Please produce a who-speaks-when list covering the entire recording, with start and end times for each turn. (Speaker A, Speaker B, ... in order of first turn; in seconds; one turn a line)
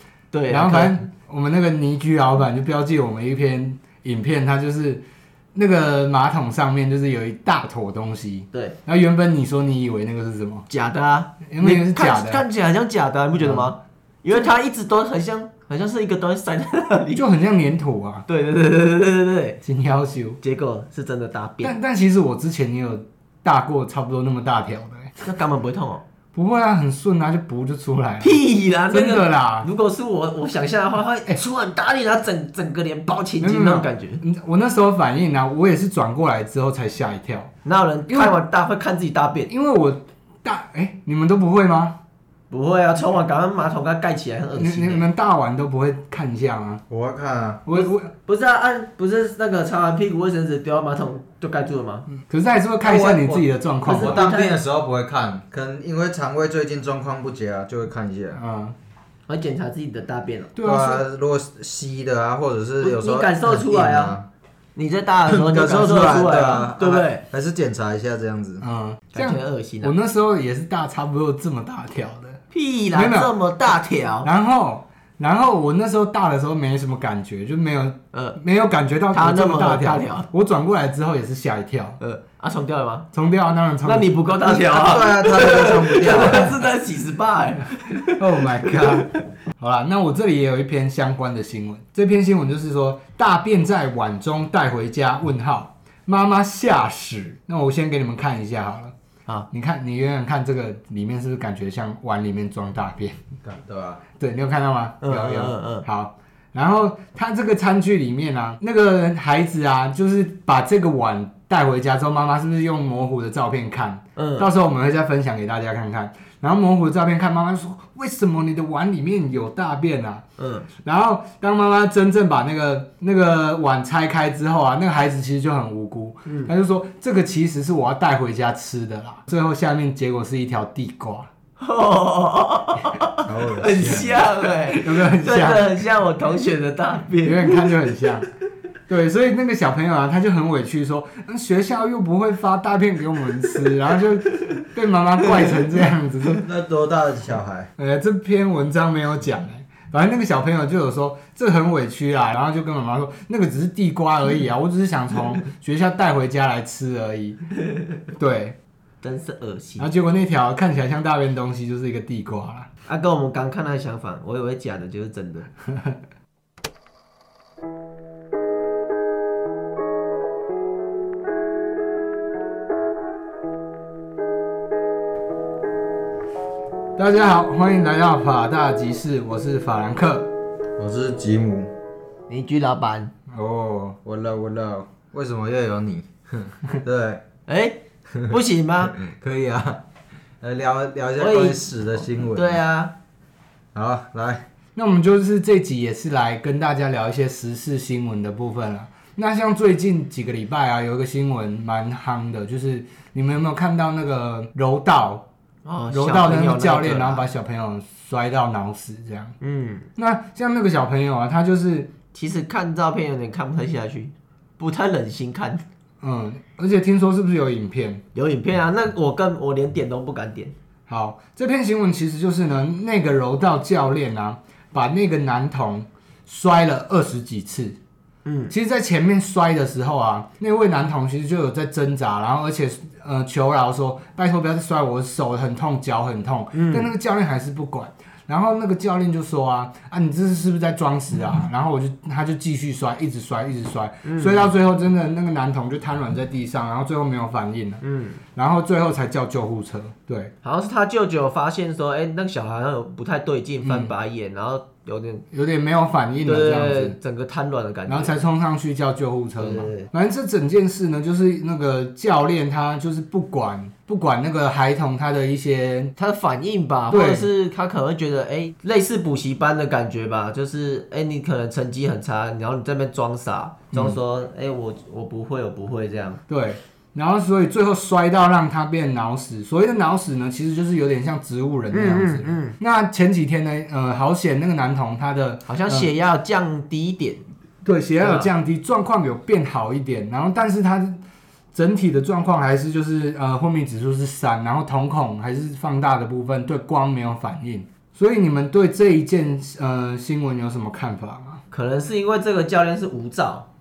Speaker A: 0.3-1.0
Speaker B: 0.5-5.0
Speaker B: 5.5-10.6
Speaker A: 10.7-17.2
Speaker B: 11.5-12.4
Speaker B: 13.4-13.7
Speaker B: 17.1-18.2
Speaker A: 18.3-19.6
Speaker B: 19.6-20.4
Speaker A: 20.4-21.8
Speaker B: 21.6-25.1
Speaker A: 25.2-26.0
Speaker B: 26.3-29.7
Speaker A: 28.2-34.2
Speaker B: 33.4-37.5
Speaker A: 37.6-39.5
Speaker B: 38.1-38.3
Speaker B: 39.5-42.0
Speaker A: 42.5-45.0
Speaker B: 44.5-46.8
Speaker C: 46.9-47.6
Speaker B: 47.6-48.1
Speaker A: 47.7-52.1
Speaker B: 52.1-54.2
Speaker C: 52.8-58.4
Speaker A: 53.8-54.6
Speaker B: 58.3-58.7
Speaker A: 59.3-60.5
Speaker B: 60.5-61.0
Speaker C: 60.6-64.2
Speaker A: 62.8-64.1
Speaker A: 64.8-67.2
Speaker C: 65.3-68.6
Speaker B: 68.6-72.4
Speaker A: 69.1-69.9
Speaker A: 72.5-74.3
Speaker B: 72.9-73.3
Speaker B: 74.2-82.0
Speaker A: 78.1-78.4
Speaker A: 79.1-80.2
Speaker A: 82.0-83.1
Speaker B: 83.1-84.2
Speaker A: 83.8-89.2
Speaker C: 84.5-86.7
Speaker B: 88.1-98.9
Speaker B: 99.5-103.2
Speaker C: 103.4-104.0
Speaker B: 104.2-131.3
Speaker A: 105.0-105.8
Speaker A: 114.2-114.5
Speaker A: 120.4-120.7
Speaker A: 126.2-126.5
Speaker A: 131.6-138.0
Speaker C: 133.2-134.2
Speaker B: 134.7-135.7
Speaker B: 137.2-138.3
Speaker B: 138.9-146.4
Speaker C: 146.4-147.7
Speaker B: 147.8-157.4
Speaker B: 158.1-158.6
Speaker A: 159.0-159.9
Speaker B: 159.8-162.7
Speaker A: 162.8-165.5
Speaker B: 165.7-166.0
Speaker B: 177.0-180.3
Speaker C: 180.8-181.7
Speaker A: 182.3-183.1
Speaker B: 183.3-183.9
Speaker C: 183.9-187.2
Speaker A: 187.5-189.0
Speaker C: 188.9-189.8
Speaker C: 190.4-192.6
Speaker A: 191.2-192.9
Speaker C: 193.7-194.5
Speaker B: 194.7-205.2
Speaker A: 205.6-207.3
Speaker B: 205.9-209.3
Speaker A: 209.4-209.9
Speaker B: 209.9-211.9
Speaker A: 212.1-215.6
Speaker B: 216.0-218.0
Speaker A: 218.1-220.5
Speaker B: 220.9-227.8
Speaker A: 228.2-228.5
Speaker B: 228.5-247.8
Speaker A: 236.5-236.9
Speaker A: 244.0-244.5
Speaker A: 247.8-248.2
Speaker B: 248.3-250.3
Speaker A: 250.4-255.2
Speaker B: 253.6-253.9
Speaker B: 255.3-256.9
Speaker A: 256.2-258.2
Speaker B: 257.9-265.9
Speaker A: 259.4-259.9
Speaker A: 266.0-276.2
Speaker B: 266.9-267.3
Speaker B: 276.3-285.9
Speaker A: 281.7-282.6
Speaker A: 285.5-287.2
Speaker B: 287.6-291.0
Speaker A: 288.0-288.3
Speaker B: 291.5-301.4
Speaker A: 301.5-303.5